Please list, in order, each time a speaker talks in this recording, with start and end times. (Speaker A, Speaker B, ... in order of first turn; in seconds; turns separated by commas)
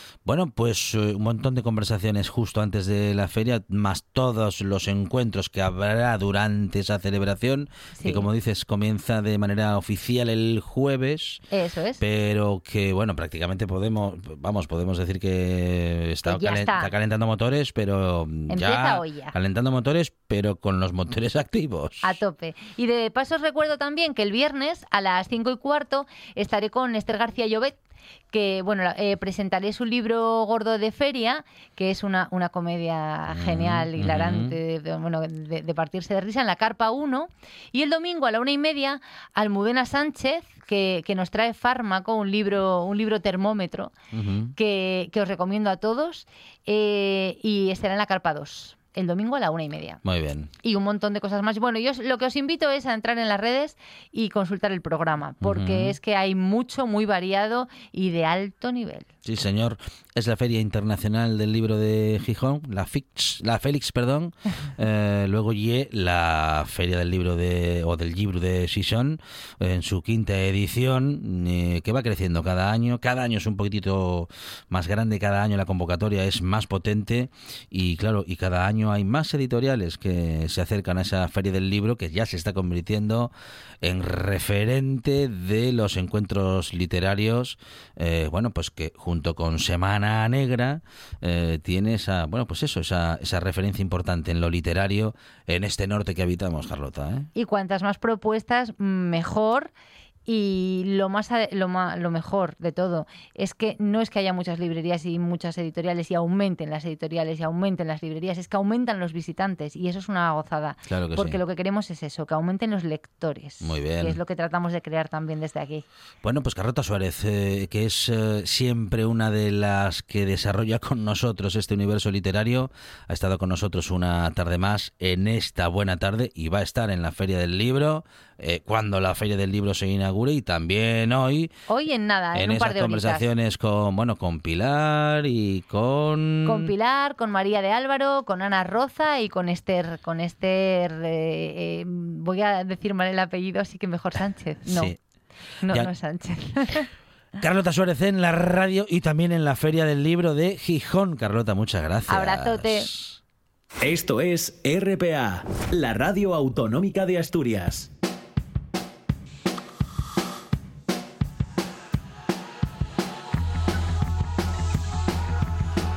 Speaker A: 0.2-11.4, Speaker B: 8.0-8.3, Speaker B: 11.5-12.0, Speaker A: 12.0-22.1, Speaker B: 16.2-16.9, Speaker B: 18.5-19.3, Speaker B: 22.0-27.8, Speaker B: 28.3-43.9, Speaker A: 33.3-34.6, Speaker A: 44.1-44.5, Speaker B: 44.5-50.0, Speaker A: 50.0-50.5, Speaker B: 50.6-59.1, Speaker A: 55.4-56.0, Speaker A: 59.2-97.3, Speaker B: 97.3-99.7, Speaker B: 100.3-115.8, Speaker A: 110.9-111.4, Speaker A: 113.6-114.2, Speaker A: 116.2-131.5, Speaker B: 131.7-133.2, Speaker A: 132.3-136.7, Speaker B: 136.4-144.9, Speaker A: 144.6-145.0, Speaker B: 145.6-146.9, Speaker A: 147.4-153.2, Speaker B: 152.1-152.9, Speaker C: 153.8-157.9